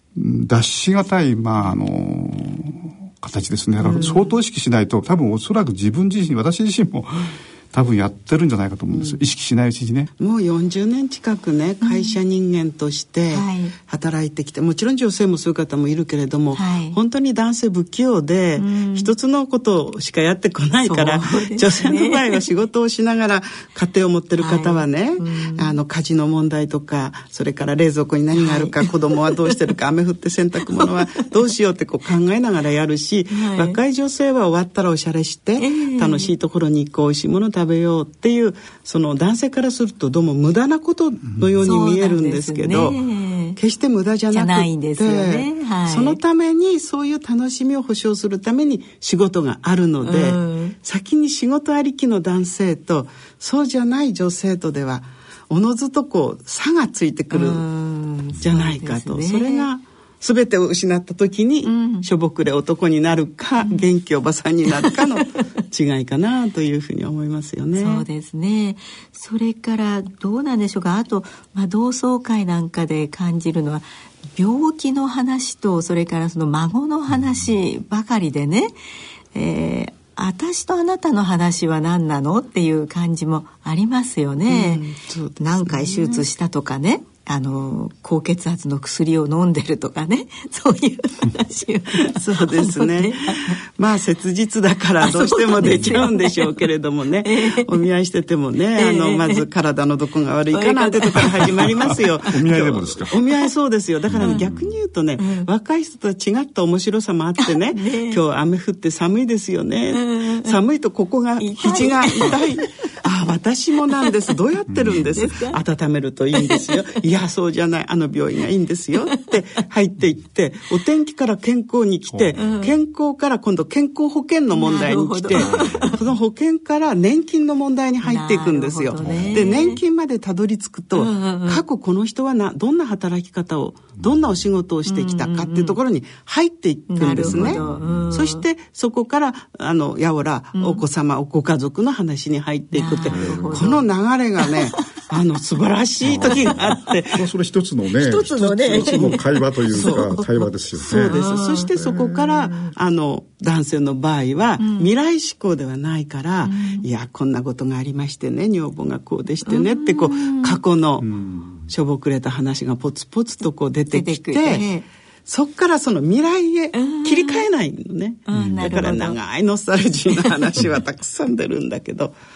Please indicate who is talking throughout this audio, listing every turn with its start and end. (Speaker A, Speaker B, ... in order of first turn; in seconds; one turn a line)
Speaker A: 0.1-10.1
Speaker B: 3.8-4.3
Speaker C: 8.9-9.2
Speaker C: 10.2-43.0
Speaker B: 11.8-12.2
Speaker B: 13.3-13.7
Speaker B: 16.5-17.0
Speaker B: 18.6-19.1
Speaker B: 20.9-22.4
Speaker B: 24.4-25.8
Speaker B: 28.3-29.4
Speaker B: 30.8-31.3
Speaker B: 33.3-33.8
Speaker B: 35.6-36.3
Speaker B: 41.6-43.6
Speaker C: 43.6-57.7
Speaker B: 44.3-46.2
Speaker B: 50.0-50.8
Speaker B: 57.3-59.7
Speaker C: 58.4-68.0
Speaker B: 61.6-62.1
Speaker B: 64.7-65.5
Speaker B: 67.8-78.7
Speaker B: 79.3-84.8
Speaker C: 84.5-86.3
Speaker B: 85.4-93.6
Speaker C: 92.0-147.2
Speaker B: 95.0-96.7
Speaker B: 97.2-97.8
Speaker B: 98.8-99.4
Speaker B: 100.5-102.2
Speaker A: 101.5-103.2
Speaker A: 104.1-104.8
Speaker B: 104.2-104.5
Speaker B: 105.2-105.5
Speaker B: 107.4-108.2
Speaker B: 109.9-110.5
Speaker B: 111.4-112.7
Speaker B: 114.9-115.6
Speaker B: 116.3-116.7
Speaker A: 122.1-122.4
Speaker B: 122.4-122.7
Speaker B: 124.5-126.0
Speaker A: 125.4-125.8
Speaker B: 128.0-129.8
Speaker A: 129.0-129.6
Speaker B: 130.9-131.6
Speaker B: 134.9-135.8
Speaker B: 136.9-138.4
Speaker A: 137.2-138.1
Speaker B: 140.6-140.8
Speaker B: 142.7-143.9
Speaker A: 143.1-143.8
Speaker B: 144.4-144.9
Speaker A: 146.0-151.2
Speaker B: 146.1-146.9
Speaker B: 148.0-152.7
Speaker C: 148.4-161.1
Speaker B: 154.6-154.9
Speaker B: 156.4-156.8
Speaker B: 159.5-160.6
Speaker A: 161.0-161.7
Speaker C: 161.7-164.7
Speaker B: 163.9-164.9
Speaker C: 165.3-172.2
Speaker B: 166.7-167.5
Speaker B: 168.3-169.2
Speaker A: 168.3-168.6
Speaker B: 170.1-170.7